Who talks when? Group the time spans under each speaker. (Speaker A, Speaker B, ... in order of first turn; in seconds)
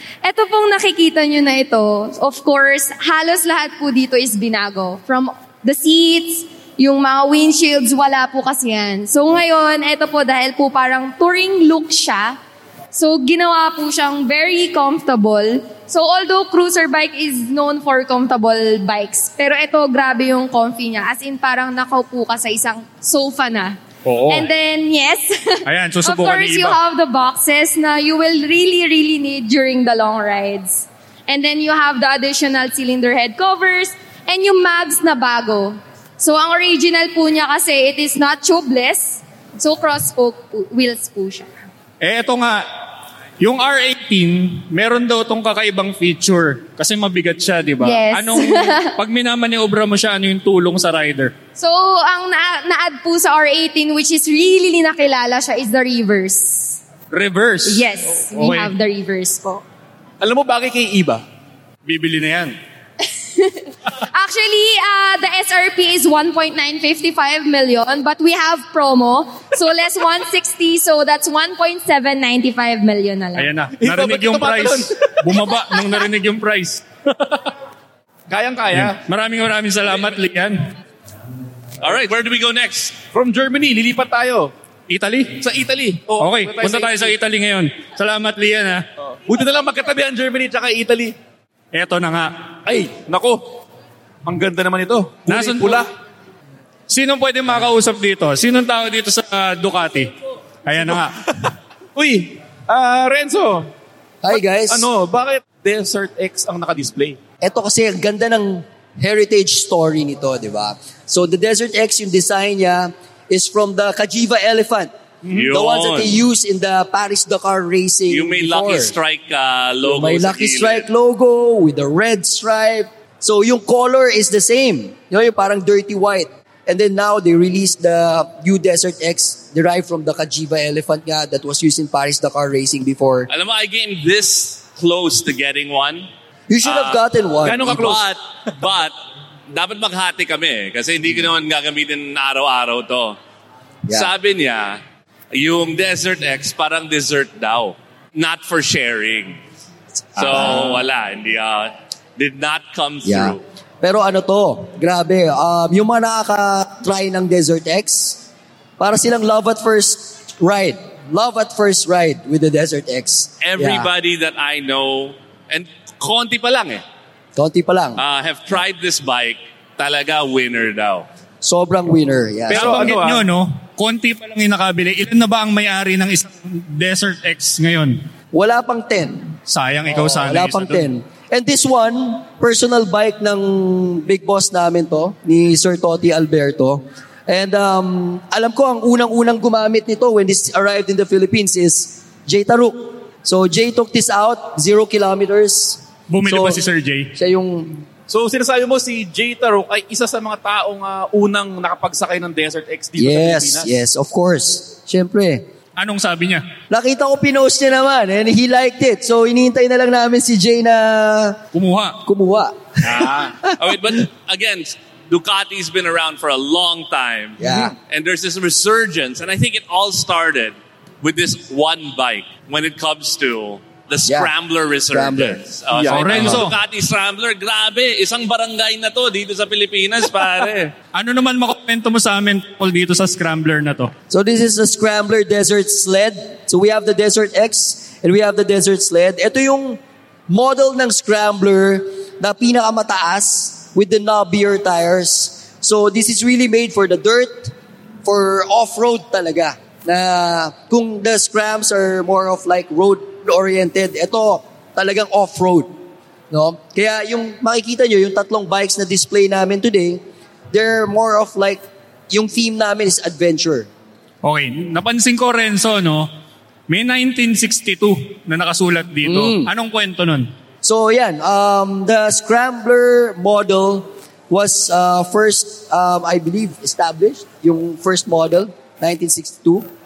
Speaker A: 0.2-12.4, 12.9-23.8, 24.3-41.5, 47.8-49.0, 51.5-56.8, 57.6-59.6, 63.1-73.5
Speaker B: 24.1-24.5, 25.7-26.8, 42.0-42.6, 43.4-51.3, 57.1-58.7, 61.9-62.6, 73.3-77.4, 78.7-80.6, 84.9-85.4, 86.2-88.8, 91.7-92.3, 95.3-95.8, 96.9-100.1, 100.7-101.1, 172.5-178.0, 179.5-180.9, 196.1-197.1, 205.8-206.4, 211.5-212.0, 225.8-226.6, 230.9-233.9, 264.2-266.1, 266.7-270.3
Speaker C: 60.2-61.2, 73.8-75.3, 78.3-79.0, 79.9-80.2, 83.1-84.5, 85.4-87.1, 89.0-91.1, 92.7-93.6, 94.2-95.9, 100.8-103.7, 104.3-107.2, 137.4-138.1, 172.5-173.3, 198.1-203.7, 213.0-213.3
Speaker D: 81.8-83.0, 115.3-116.2, 118.1-120.9, 133.3-136.1, 136.6-137.0, 137.6-138.9, 139.5-143.2, 143.9-144.8, 145.3-149.4, 150.2-153.4, 163.4-166.8, 168.0-171.1, 213.6-230.7
Speaker E: 104.2-104.9, 107.4-119.0, 119.8-133.3, 136.5-138.0, 150.2-150.8, 153.0-158.3, 158.8-163.9, 167.4-168.0, 171.4-173.0, 178.3-179.3, 179.9-196.6, 197.2-197.8, 203.0-205.4, 206.7-211.4, 212.1-213.8, 217.4-217.7, 224.1-224.3, 224.9-225.4, 226.0-226.4, 234.1-247.5, 248.0-255.8, 256.3-263.7, 269.0-269.5, 270.6-279.7